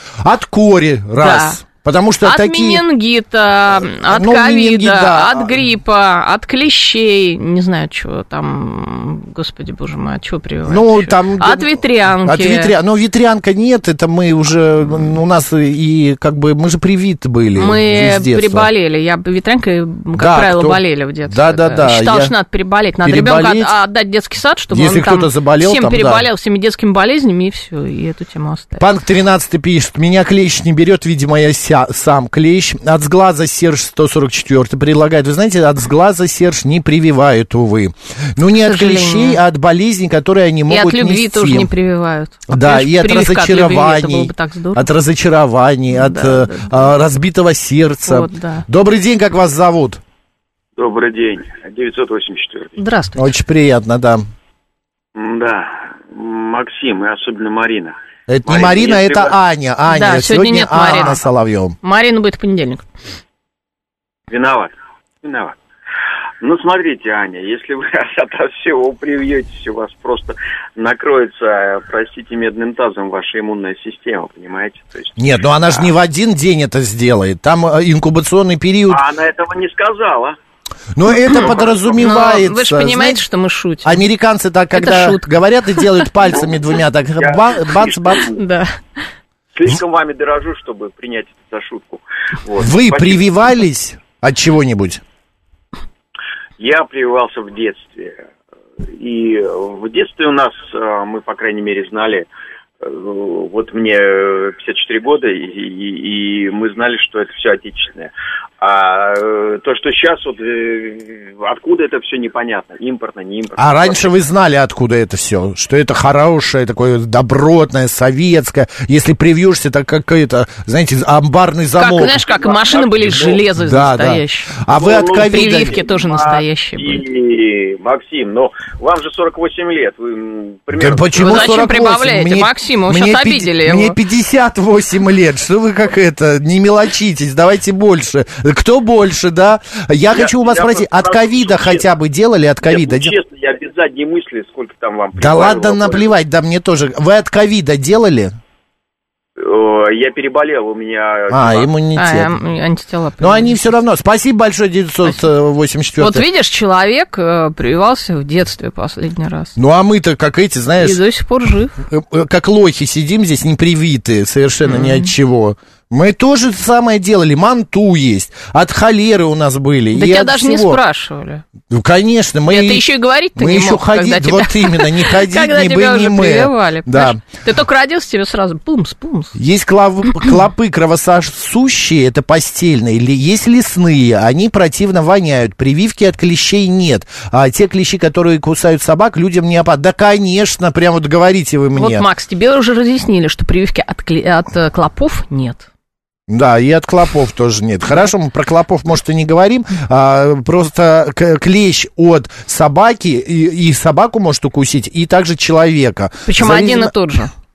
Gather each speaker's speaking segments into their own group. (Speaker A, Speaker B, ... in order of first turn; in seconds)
Speaker A: 0.2-2.8, 3.8-5.6, 10.7-18.7, 20.1-22.3, 23.0-23.7, 24.7-26.3, 28.8-41.7, 42.5-50.0, 53.1-54.2, 58.3-61.8, 75.2-79.0, 80.9-83.2, 83.8-88.2, 92.6-95.0, 113.6-122.2, 123.5-125.8, 130.7-143.1, 145.1-148.3, 151.3-152.3, 153.2-156.2, 159.6-161.0, 161.9-170.8, 171.7-177.2, 179.3-192.1, 196.3-206.9
Speaker B: 1.2-1.6, 2.2-12.7, 17.6-28.8, 38.6-39.4, 40.7-44.9, 45.9-46.9, 48.0-48.6, 52.8-53.3, 59.9-61.2, 61.8-62.9, 82.0-84.0, 84.7-86.0, 88.3-89.1, 121.8-127.0, 131.2-133.9, 151.9-153.6, 156.0-159.5, 160.8-161.7, 164.6-165.1, 169.9-171.4, 172.5-179.4, 191.8-195.7, 206.2-207.3
Speaker C: 50.8-52.8, 55.1-59.4, 64.3-65.6, 66.4-75.9, 78.9-80.4, 81.4-82.0, 86.3-86.6, 87.2-88.3, 89.5-93.2, 96.6-98.2, 98.9-102.3, 102.8-114.1, 122.1-123.4, 124.7-131.5, 140.1-141.8, 142.6-146.1, 149.4-151.7